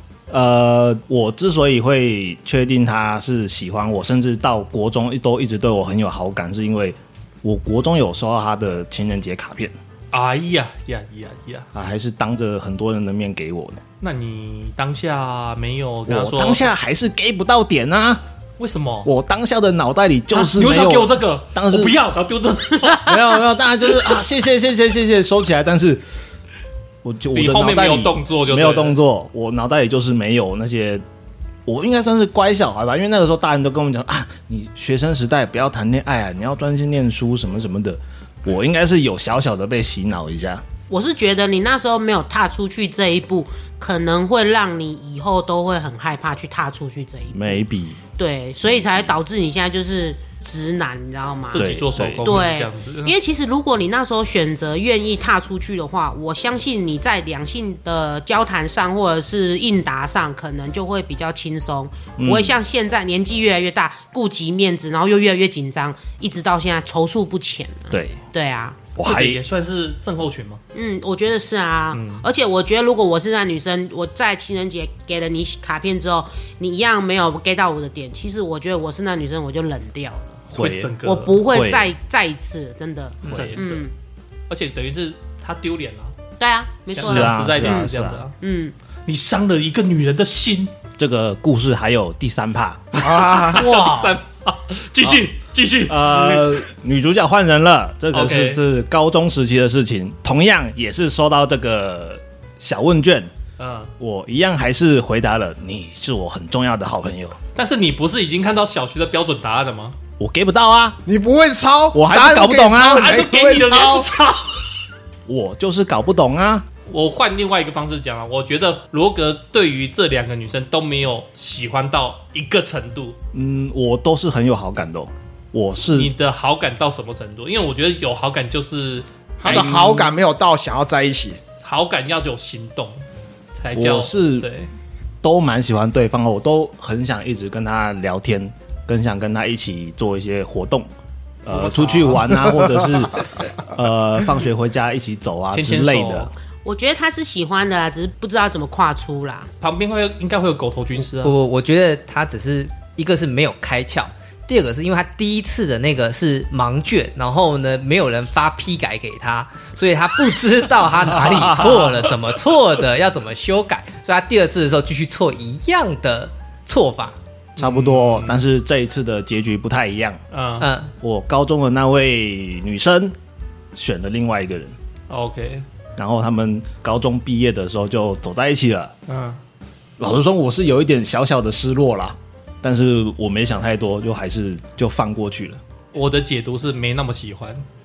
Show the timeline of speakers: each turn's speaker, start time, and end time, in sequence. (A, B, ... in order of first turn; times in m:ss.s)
0:00.3-0:09.7 A
0:10.1-0:11.7 B
0:11.7-0:13.8 A
0:14.0-0:16.7 B
0:16.1-0:18.2 A
0:18.6-0:19.1 B
0:19.0-0:22.0 A
0:20.3-0:23.2 B
0:23.0-0:26.0 A
0:27.0-0:31.0 A
0:27.3-0:29.0 B
0:31.6-0:40.6 A
0:40.9-0:47.6 C
0:47.3-0:48.0 A
0:48.2-1:08.8 C
0:51.5-0:53.2 B
0:51.5-0:52.4 A
1:02.2-1:02.6 A
1:07.9-1:08.2 A
1:08.9-1:09.4 A
1:09.0-1:10.6 B
1:10.7-1:20.4 C
1:11.9-1:12.2 B
1:20.5-1:21.9 A
1:20.5-1:21.4 B
1:21.0-1:23.9 C
1:23.2-1:23.6 A
1:23.3-1:23.8 B
1:24.5-1:26.2 B
1:26.4-1:28.7 C
1:26.9-1:28.3 B
1:27.0-1:28.2 A
1:29.0-1:30.7 B
1:31.0-1:33.0 A
1:32.9-1:36.6 B
1:33.0-1:33.7 D
1:33.5-1:34.1 A
1:35.9-1:43.3 A
1:38.1-1:38.6 B
1:43.6-1:43.9 B
1:44.0-1:47.4 A
1:47.6-1:50.0 B
1:50.2-1:51.0 A
1:51.0-1:54.1 D
1:51.9-1:53.1 A
1:52.9-1:54.6 B
1:55.3-1:56.6 A
1:56.9-2:03.2 B
2:03.3-2:06.1 A
2:05.9-2:10.1 B
2:09.4-2:11.4 D
2:11.6-2:14.7 B
2:13.7-2:14.5 A
2:15.2-2:20.9 A
2:21.4-2:26.3 A
2:21.5-2:22.4 B
2:25.5-2:26.3 B
2:26.6-2:29.5 C
2:29.6-2:31.3 B
2:31.2-2:47.2 E
2:41.0-2:42.0 A
2:41.3-2:42.1 B
2:47.6-2:48.4 B
2:47.6-2:50.2 A
2:50.3-2:50.7 B
2:50.6-2:50.9 E
2:51.0-2:53.1 A
2:53.7-2:54.7 A
2:55.1-2:55.6 B
2:56.0-2:58.9 A
2:59.1-2:59.4 B
3:00.0-3:05.6 A
3:05.9-3:07.6 B